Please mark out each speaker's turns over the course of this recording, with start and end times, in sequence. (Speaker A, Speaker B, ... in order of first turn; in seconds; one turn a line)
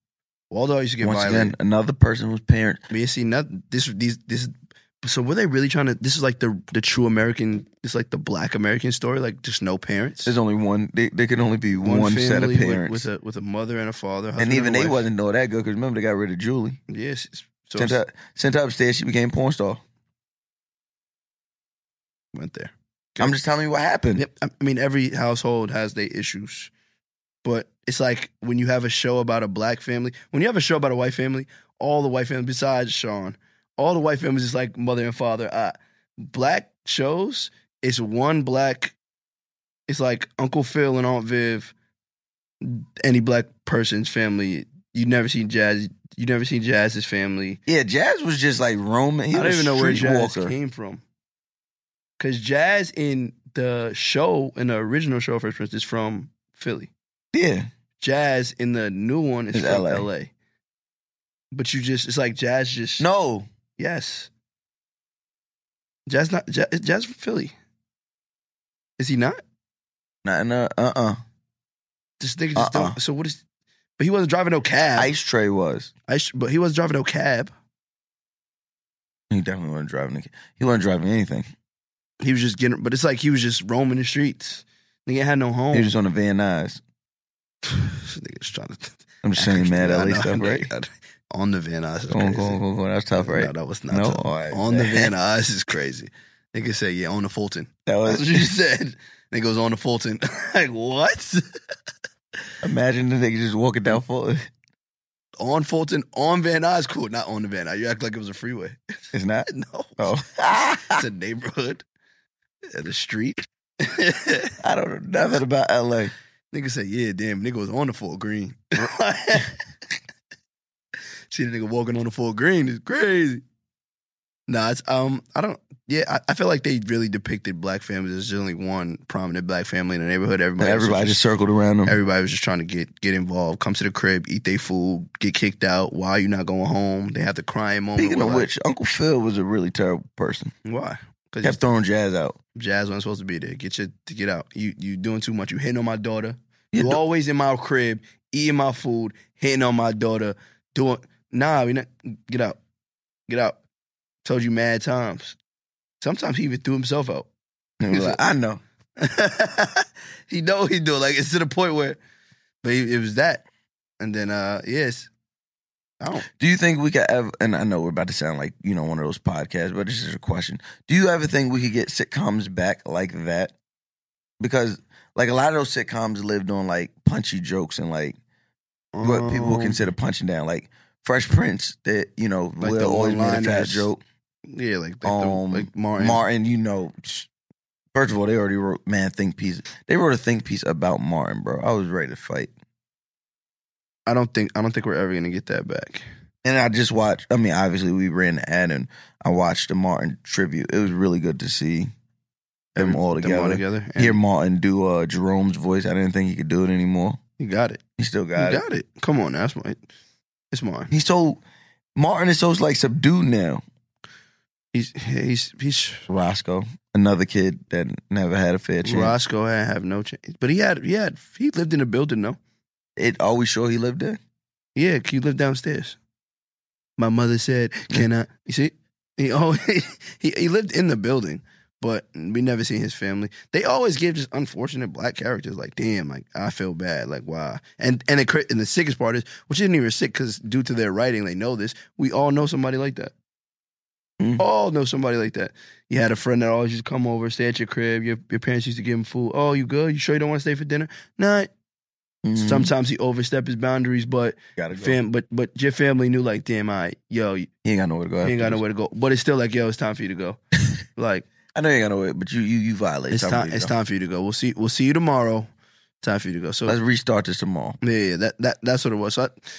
Speaker A: 0.5-1.5
Speaker B: 1.0-2.8
Speaker A: 2.9-4.5
Speaker A: 5.0-10.3
Speaker B: 10.2-13.1
Speaker A: 11.8-15.0
Speaker B: 14.4-16.8
Speaker A: 16.9-18.0
Speaker B: 17.8-19.8
Speaker A: 22.3-23.4
Speaker B: 23.2-24.2
Speaker A: 24.1-26.7
Speaker A: 27.4-38.9
Speaker A: 39.9-41.7
Speaker A: 42.6-47.6
Speaker B: 47.7-50.5
Speaker A: 49.3-51.0
Speaker A: 52.2-56.9
Speaker B: 57.3-57.7
Speaker A: 58.0-60.3
Speaker B: 59.5-60.1
Speaker A: 61.5-63.0
Speaker B: 63.0-63.5
Speaker A: 63.8-64.3
Speaker A: 66.1-67.5
Speaker A: 69.0-69.4
Speaker B: 70.2-71.2
Speaker A: 72.2-73.4
Speaker B: 72.5-73.0
Speaker A: 74.0-75.1
Speaker B: 75.0-75.9
Speaker A: 76.1-77.5
Speaker B: 79.3-81.5
Speaker A: 82.2-85.9
Speaker B: 85.7-86.8
Speaker A: 87.6-92.6
Speaker B: 89.2-90.7
Speaker B: 92.1-95.1
Speaker A: 93.2-101.4
Speaker B: 97.8-98.5
Speaker B: 102.6-104.4
Speaker A: 105.4-108.8
Speaker B: 109.1-111.0
Speaker A: 109.5-110.0
Speaker A: 110.8-111.8
Speaker A: 112.7-114.5
Speaker B: 114.6-116.1
Speaker A: 116.5-119.5
Speaker A: 121.3-123.4
Speaker A: 124.5-131.2
Speaker B: 130.6-132.0
Speaker A: 131.8-138.5
Speaker B: 138.0-140.5
Speaker A: 140.6-141.6
Speaker B: 141.4-142.3
Speaker A: 142.5-152.6
Speaker B: 146.7-147.0
Speaker A: 153.3-153.6
Speaker A: 154.2-155.4
Speaker A: 156.0-157.3
Speaker B: 157.8-158.6
Speaker A: 157.9-158.2
Speaker A: 159.0-162.0
Speaker A: 162.6-163.4
Speaker A: 164.0-165.1
Speaker A: 166.0-166.2
Speaker B: 166.3-173.5
Speaker B: 174.4-178.2
Speaker A: 178.9-179.8
Speaker B: 179.0-184.0
Speaker A: 182.6-183.9
Speaker A: 184.5-186.2
Speaker B: 185.0-187.3
Speaker B: 187.9-192.5
Speaker A: 194.1-196.0
Speaker B: 196.4-201.9
Speaker A: 202.7-204.2
Speaker B: 202.8-207.2
Speaker A: 207.4-207.8
Speaker B: 208.0-208.6
Speaker A: 208.4-209.8
Speaker A: 210.5-210.9
Speaker B: 210.9-211.4
Speaker B: 211.9-213.6
Speaker A: 214.7-216.1
Speaker B: 216.1-219.1
Speaker A: 218.8-222.4
Speaker B: 223.0-224.2
Speaker A: 224.8-226.0
Speaker A: 227.0-243.1
Speaker A: 244.4-251.5
Speaker B: 252.2-252.7
Speaker A: 252.3-257.5
Speaker B: 254.6-255.0
Speaker B: 257.6-258.6
Speaker A: 258.2-260.4
Speaker A: 261.0-261.2
Speaker B: 261.5-263.7
Speaker A: 263.1-265.5
Speaker A: 266.0-266.8
Speaker B: 266.6-267.8
Speaker A: 267.8-269.3